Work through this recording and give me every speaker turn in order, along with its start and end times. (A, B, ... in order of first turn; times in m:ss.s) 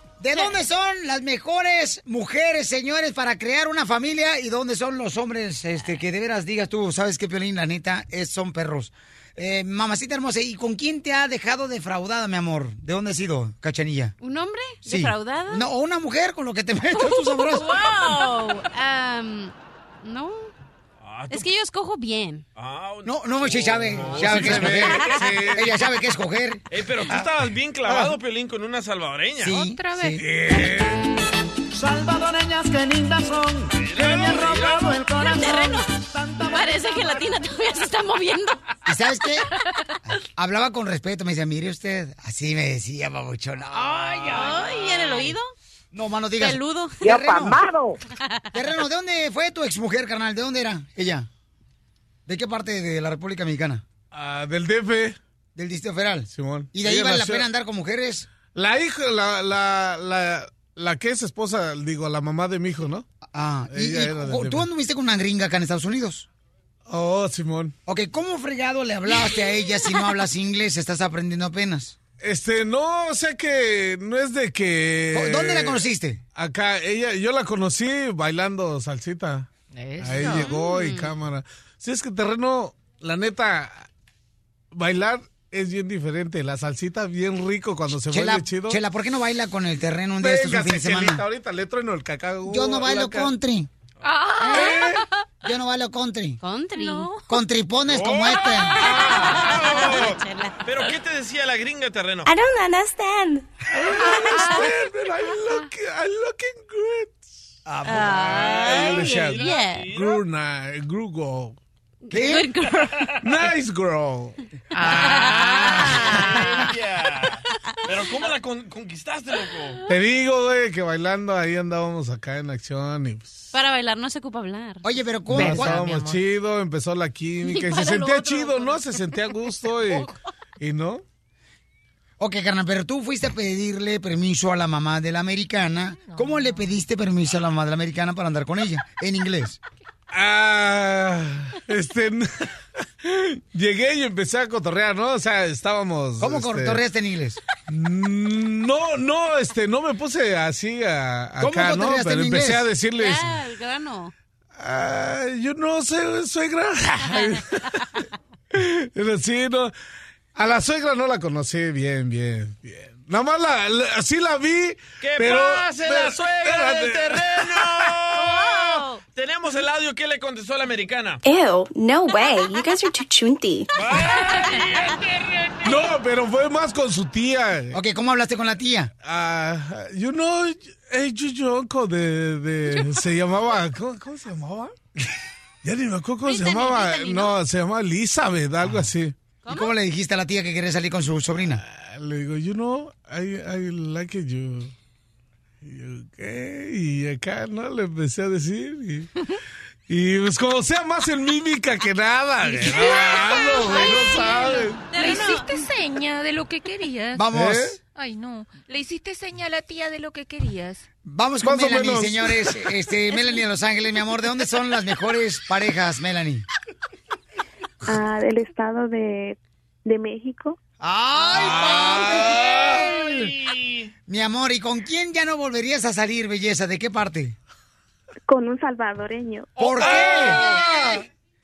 0:00.2-0:14.1 A
0:14.2-0:15.6 B
0:14.8-0:17.8 A
0:16.9-0:20.5 B
0:21.0-0:21.5 C
0:21.3-0:22.4 B
0:22.6-0:25.7 C
0:23.0-0:26.6 A
0:24.0-0:25.6 D
0:24.7-0:25.4 B
0:26.7-0:29.7 C
0:29.4-0:30.2 A
0:29.6-0:30.1 E
0:30.0-0:31.0 D
0:31.9-0:33.5 F
0:33.8-0:35.0 C
0:34.0-0:37.1 F
0:35.1-0:38.6 B
0:38.9-0:39.5 A
0:40.1-0:44.0 A
0:44.3-0:45.5 B
0:45.9-0:47.6 A
0:46.4-0:47.1 B
0:48.5-0:51.3 A
0:52.3-0:53.8 A
0:54.1-0:55.2 D
0:55.6-0:58.3 A
0:56.3-0:57.5 D
0:58.5-1:03.1 D
1:03.3-1:06.3 A
1:03.7-1:04.6 D
1:06.9-1:07.8 D
1:07.9-1:12.0 A
1:12.2-1:15.8 D
1:15.1-1:16.2 A
1:16.4-1:23.9 D
1:19.7-1:20.6 E
1:20.2-1:21.1 B
1:24.7-1:28.8 D
1:28.1-1:31.2 A
1:30.2-1:33.3 D
1:32.5-1:33.7 A
1:34.0-1:34.9 E
1:34.4-1:34.8 A
1:34.6-1:35.0 D
1:35.4-1:36.4 A
1:36.4-1:37.1 B
1:36.7-1:37.4 E
1:37.3-1:38.8 A
1:37.9-1:42.3 C
1:38.8-1:40.6 B
1:42.3-1:43.4 G
1:43.7-1:51.6 D
1:44.0-1:44.8 B
1:47.8-1:50.0 B
1:48.5-1:50.2 C
1:52.0-1:53.1 B
1:52.1-1:52.5 A
1:53.2-1:55.7 D
1:54.8-1:59.8 C
1:55.2-1:56.0 B
1:59.9-2:03.5 D
2:03.5-2:04.8 B
2:04.8-2:06.0 A
2:05.3-2:10.1 D
2:05.6-2:06.1 E
2:07.4-2:10.1 B
2:10.6-2:11.0 D
2:12.2-2:19.6 A
2:16.0-2:16.8 E
2:20.1-2:22.5 D
2:23.0-2:26.8 D
2:26.2-2:27.4 A
2:27.7-2:33.3 D
2:31.4-2:32.7 A
2:32.9-2:34.1 B
2:34.6-2:37.6 D
2:38.5-2:39.7 D
2:40.4-2:47.8 D
2:45.0-2:51.2 C
2:48.2-2:49.0 B
2:51.2-2:53.7 G
2:53.8-2:55.6 C
2:54.2-2:54.7 B
2:55.6-2:57.8 D
2:57.7-2:58.9 A
2:59.0-3:04.7 D
3:05.6-3:09.2 D
3:06.2-3:07.4 B
3:09.4-3:09.7 B
3:09.5-3:11.6 A
3:11.6-3:14.7 D
3:15.6-3:19.1 D
3:19.9-3:24.8 D
3:22.5-3:27.3 E
3:23.2-3:25.5 B
3:27.2-3:27.8 A
3:27.3-3:27.7 D
3:27.9-3:30.9 E
3:31.0-3:36.5 A
3:31.4-3:32.4 D
3:37.9-3:40.6 H
3:40.8-3:43.3 A
3:41.3-3:43.9 C
3:41.4-3:42.4 D
3:44.1-3:47.4 A
3:48.3-3:49.5 H
3:49.6-3:50.4 A
3:49.8-3:51.0 D
3:49.9-3:50.4 C